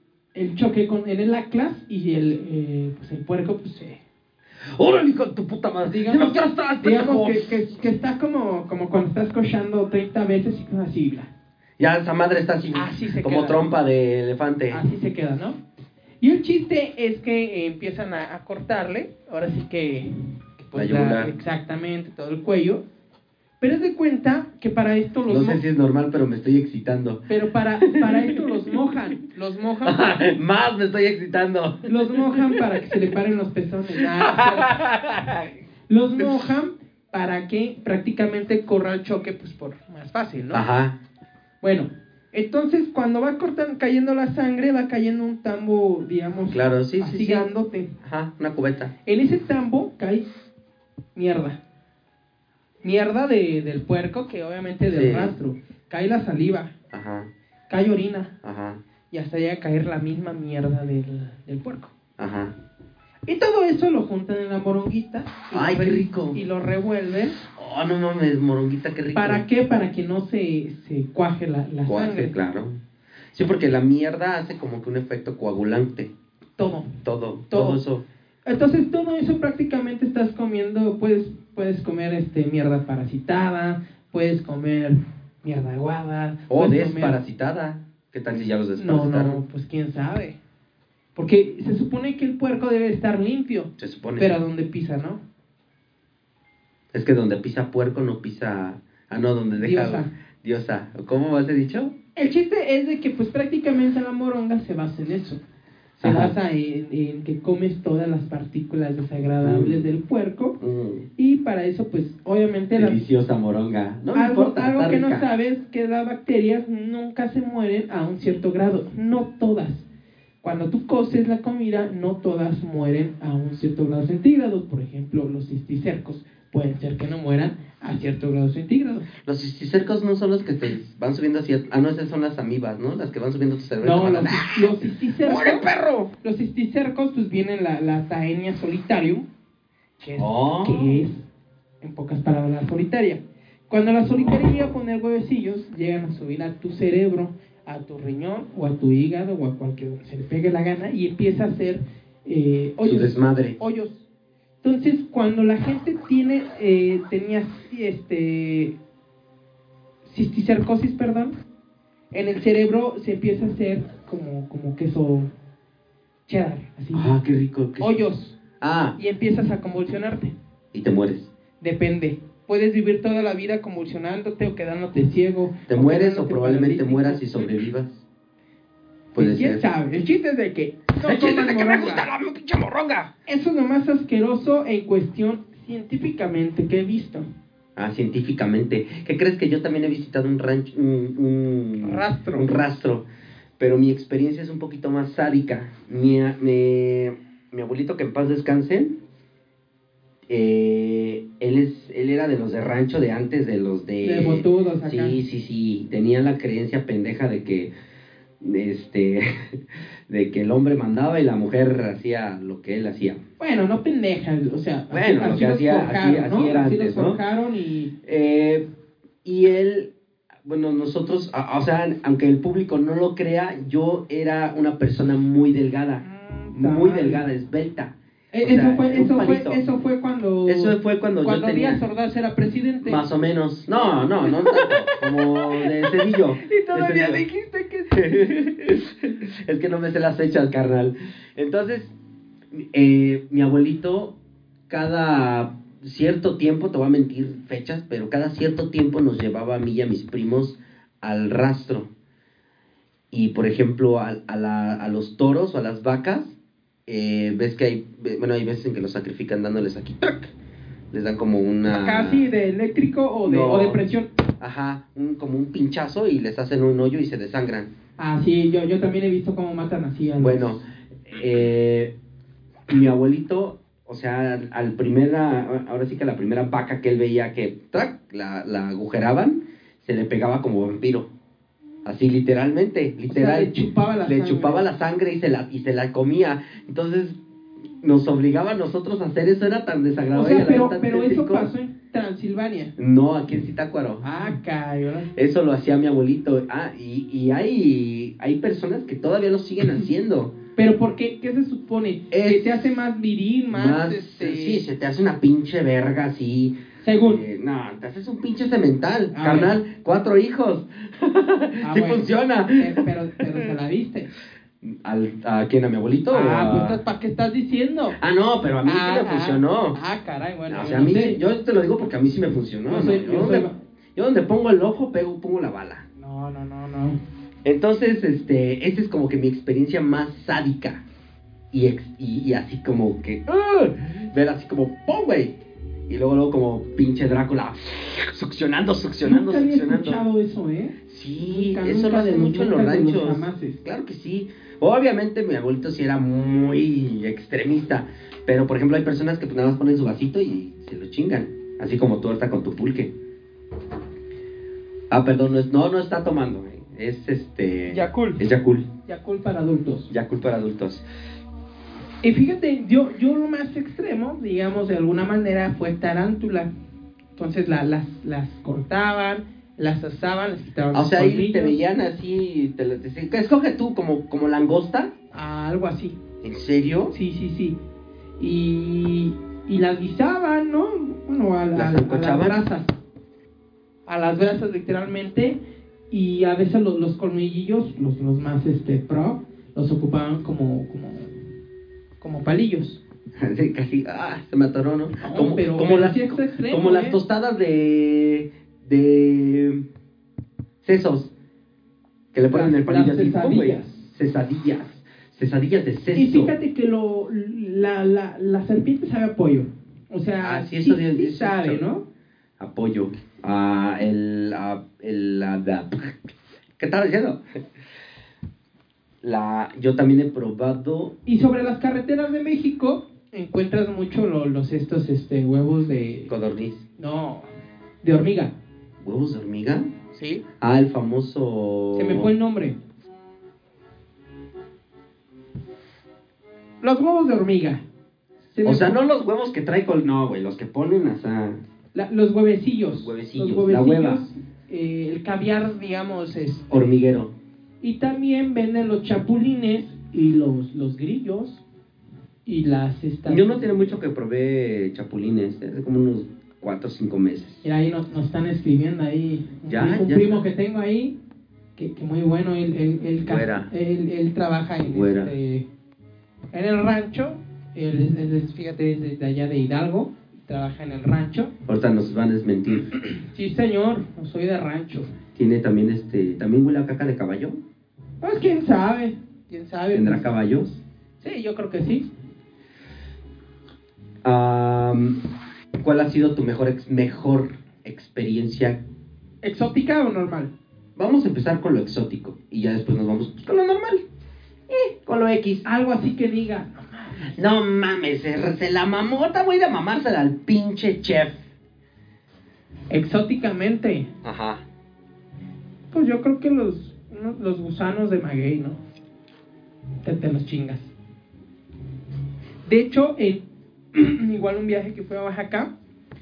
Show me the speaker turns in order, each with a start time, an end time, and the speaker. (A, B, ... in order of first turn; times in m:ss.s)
0:00.3-0:04.0 A
0:04.8-0:07.6 B
0:05.8-0:11.3 A
0:11.8-0:14.8 B
0:12.7-0:13.6 A
0:14.7-0:15.6 A
0:16.2-0:22.8 A
0:20.7-0:21.3 B
0:23.6-0:25.6 A
0:25.3-0:27.2 B
0:27.3-0:30.2 A
0:27.8-0:28.4 B
0:29.8-0:32.6 B
0:31.8-0:34.8 A
0:34.0-0:35.5 B
0:35.9-0:40.6 A
0:40.5-0:41.0 B
0:41.6-0:47.9 A
0:46.5-0:48.9 B
0:49.0-0:50.3 A
0:51.1-0:51.6 A
0:52.8-0:56.7 A
0:54.9-0:55.3 B
0:56.9-0:57.3 B
0:57.7-0:58.3 A
0:58.4-0:58.8 B
0:59.1-1:01.9 A
1:02.2-1:02.5 B
1:03.2-1:07.4 A
1:05.5-1:06.4 B
1:07.5-1:09.4 B
1:09.1-1:12.3 A
1:11.8-1:12.8 B
1:13.3-1:16.1 B
1:16.6-1:17.0 A
1:17.0-1:18.0 B
1:17.5-1:17.8 A
1:18.4-1:27.2 A
1:26.5-1:29.4 B
1:28.8-1:30.4 A
1:31.2-1:35.2 A
1:33.8-1:34.3 B
1:36.9-1:41.9 B
1:39.6-1:40.1 A
1:42.2-1:45.4 A
1:46.0-1:46.3 B
1:46.0-1:50.6 A
1:49.4-1:49.9 B
1:50.6-1:51.1 B
1:51.2-1:53.0 A
1:52.7-1:55.3 B
1:54.1-1:59.8 A
2:00.4-2:09.1 A
2:09.2-2:16.1 B
2:13.8-2:15.7 A
2:16.2-2:19.3 A
2:20.0-2:21.3 A
2:20.2-2:21.0 B
2:21.8-2:34.0 A
2:32.8-2:33.6 B
2:34.6-2:38.8 A
2:40.0-2:41.3 A
2:42.1-2:45.3 A
2:46.3-2:47.1 A
2:46.9-2:48.0 B
2:47.8-2:48.4 A
2:48.6-2:49.0 B
2:49.0-2:50.3 A
2:50.7-2:51.3 B
2:51.6-2:57.5 A
2:55.7-2:58.0 B
2:59.1-2:59.6 B
2:59.1-3:02.1 A
3:01.0-3:03.1 B
3:03.3-3:07.3 A
3:07.8-3:13.0 B
3:11.8-3:12.6 A
3:13.6-3:18.9 B
3:20.3-3:27.7 B
3:24.0-3:25.2 A
3:28.4-3:33.2 B
3:33.4-3:37.9 A
3:34.9-3:37.2 B
3:38.0-3:38.6 B
3:39.2-3:39.9 B
3:40.4-3:49.6 B
3:46.0-3:47.2 A
3:48.3-3:53.0 A
3:50.4-3:51.8 B
3:52.8-3:57.2 B
3:54.2-3:58.2 A
3:57.9-4:01.9 B
4:02.5-4:04.2 B
4:04.7-4:11.9 B
4:13.1-4:20.3 B
4:20.9-4:22.3 B
4:21.7-4:24.1 A
4:23.2-4:23.9 B
4:24.4-4:27.7 B
4:28.0-4:30.6 A
4:30.2-4:31.9 B
4:32.7-4:41.1 B
4:41.8-4:47.2 B
4:43.1-4:44.6 A
4:47.8-4:51.5 B
4:50.1-4:52.7 A
4:52.8-4:54.1 B
4:54.0-4:55.1 A
4:55.1-5:00.3 B
5:00.6-5:04.6 A
5:02.1-5:02.8 B
5:03.5-5:13.5 B
5:06.8-5:07.2 A
5:09.1-5:09.6 A
5:11.6-5:14.1 A
5:14.6-5:16.8 B
5:16.1-5:18.0 A
5:18.0-5:19.8 B
5:18.6-5:21.2 A
5:20.5-5:25.8 B
5:22.7-5:23.6 A
5:26.0-5:27.0 A
5:27.4-5:30.8 B
5:31.5-5:35.4 B
5:35.9-5:40.0 B
5:39.0-5:43.6 A
5:40.8-5:52.9 B
5:54.9-5:58.7 B
5:57.7-5:58.2 A
5:58.8-5:59.9 A
5:59.9-6:00.8 B
6:02.0-6:06.5 A
6:07.2-6:11.6 A
6:10.7-6:14.9 B
6:15.1-6:16.0 A
6:16.2-6:16.9 B
6:16.9-6:17.6 A
6:18.2-6:22.7 A
6:21.5-6:22.4 B
6:23.9-6:25.4 A
6:25.9-6:31.2 A
6:32.0-6:32.8 A
6:33.2-6:39.6 B
6:35.0-6:37.0 A
6:40.6-6:41.1 B
6:42.1-6:46.3 B
6:42.3-6:43.6 A
6:45.9-6:51.8 A
6:50.2-6:51.6 B
6:52.4-6:57.2 B
6:59.0-7:01.0 B
7:01.0-7:06.1 A
7:06.1-7:06.6 B
7:06.8-7:07.3 A
7:07.8-7:08.3 A
7:08.8-7:09.7 B
7:09.9-7:10.2 A
7:10.4-7:12.1 B
7:11.7-7:12.6 A
7:16.6-7:17.6 A
7:18.3-7:18.8 A
7:18.4-7:21.4 B
7:21.7-7:26.6 A
7:22.7-7:24.1 B
7:26.5-7:27.1 B
7:27.6-7:31.4 A
7:32.2-7:33.6 A
7:33.0-7:37.4 B
7:37.4-7:41.0 A
7:39.5-7:40.2 B
7:41.6-7:45.4 A
7:43.0-7:43.5 B
7:44.6-7:45.1 B
7:46.3-7:51.3 A
7:51.5-7:52.7 B
7:52.7-7:54.9 A
7:55.1-7:57.4 B
7:58.0-8:00.1 A
7:59.7-8:00.6 B
8:01.0-8:01.9 A
8:04.0-8:05.0 B
8:05.6-8:08.6 B
8:09.2-8:10.3 A
8:10.8-8:13.8 B
8:14.5-8:15.4 B
8:15.4-8:17.1 A
8:17.1-8:21.2 B
8:22.7-8:23.9 A
8:24.0-8:24.4 B
8:25.7-8:28.6 A
8:29.8-8:30.7 A
8:32.4-8:35.5 A